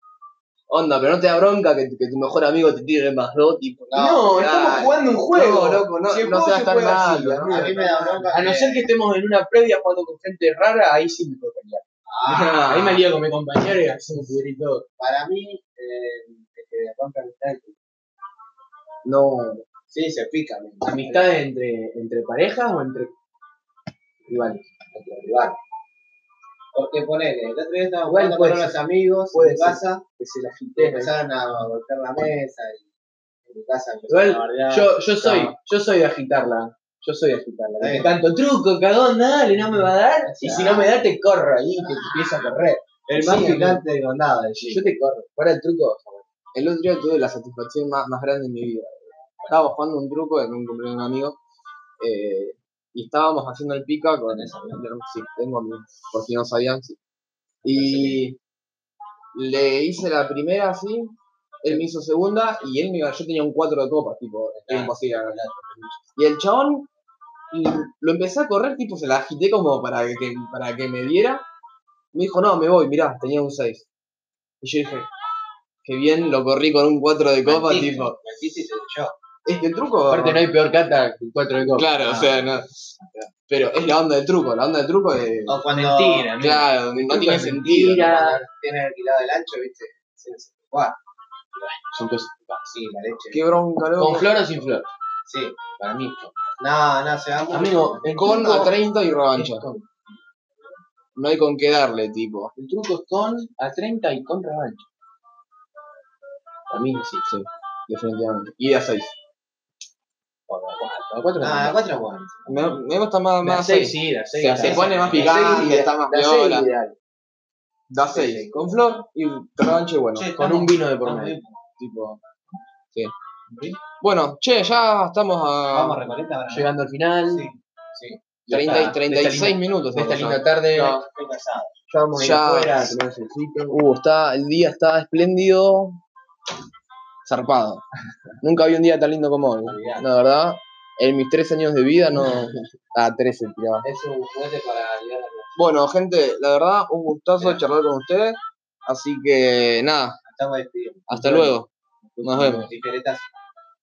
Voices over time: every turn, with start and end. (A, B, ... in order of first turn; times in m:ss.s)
0:00.7-0:07.7 A
0:03.9-0:04.5 B
0:03.9-0:11.8 C
0:07.5-0:08.9 B
0:12.1-0:12.7 B
0:12.3-0:13.1 A
0:12.7-0:14.8 C
0:15.0-0:17.8 B
0:19.0-0:19.6 A
0:19.9-0:21.4 B
0:20.8-0:23.1 C
0:24.2-0:25.6 C
0:26.7-0:30.0 B
0:28.1-0:28.8 C
0:29.3-0:31.1 C
0:30.8-0:32.9 B
0:33.5-0:35.5 B
0:34.1-0:43.8 C
0:37.8-0:38.1 B
0:40.2-0:41.1 B
0:41.8-0:42.3 B
0:43.1-0:44.8 B
0:44.6-0:46.2 C
0:46.5-0:51.4 A
0:52.0-0:57.0 A
0:54.3-0:54.8 B
0:57.6-0:58.2 B
0:57.6-0:58.4 A
0:59.3-1:05.4 A
1:04.5-1:06.0 B
1:06.2-1:06.9 A
1:07.5-1:11.4 A
1:12.1-1:13.8 A
1:14.6-1:15.1 A
1:15.8-1:18.2 A
1:17.4-1:19.2 B
1:19.4-1:20.4 A
1:20.1-1:21.9 C
1:21.7-1:22.9 A
1:22.0-1:23.3 B
1:23.5-1:25.6 A
1:25.5-1:26.3 B
1:25.7-1:28.4 C
1:26.4-1:28.1 A
1:28.0-1:31.0 B
1:31.6-1:32.8 C
1:32.7-1:33.5 B
1:33.3-1:34.5 A
1:34.0-1:34.9 C
1:35.2-1:35.6 B
1:35.7-1:36.4 C
1:36.6-1:38.4 B
1:37.5-1:38.8 C
1:38.1-1:39.6 A
1:39.3-1:39.9 C
1:41.2-1:42.5 A
1:42.6-1:44.8 C
1:46.7-1:47.4 C
1:47.3-1:49.1 A
1:50.5-1:51.8 C
1:51.4-1:52.8 B
1:52.5-1:56.7 A
1:53.4-1:56.9 C
1:54.6-1:55.7 B
1:57.9-2:00.3 A
1:58.1-1:58.8 C
2:00.1-2:01.6 B
2:00.4-2:01.4 C
2:01.8-2:02.2 A
2:03.5-2:03.8 B
2:04.0-2:06.0 A
2:05.7-2:06.7 B
2:06.5-2:07.4 C
2:07.3-2:08.2 B
2:08.4-2:11.0 C
2:08.5-2:10.9 A
2:10.8-2:11.7 B
2:11.9-2:13.8 C
2:12.1-2:13.0 A
2:13.7-2:16.0 A
2:17.2-2:17.8 A
2:18.4-2:23.9 A
2:19.6-2:20.0 B
2:24.0-2:25.4 B
2:25.6-2:30.2 A
2:30.2-2:31.6 B
2:31.1-2:31.7 A
2:32.2-2:33.3 B
2:32.2-2:32.7 A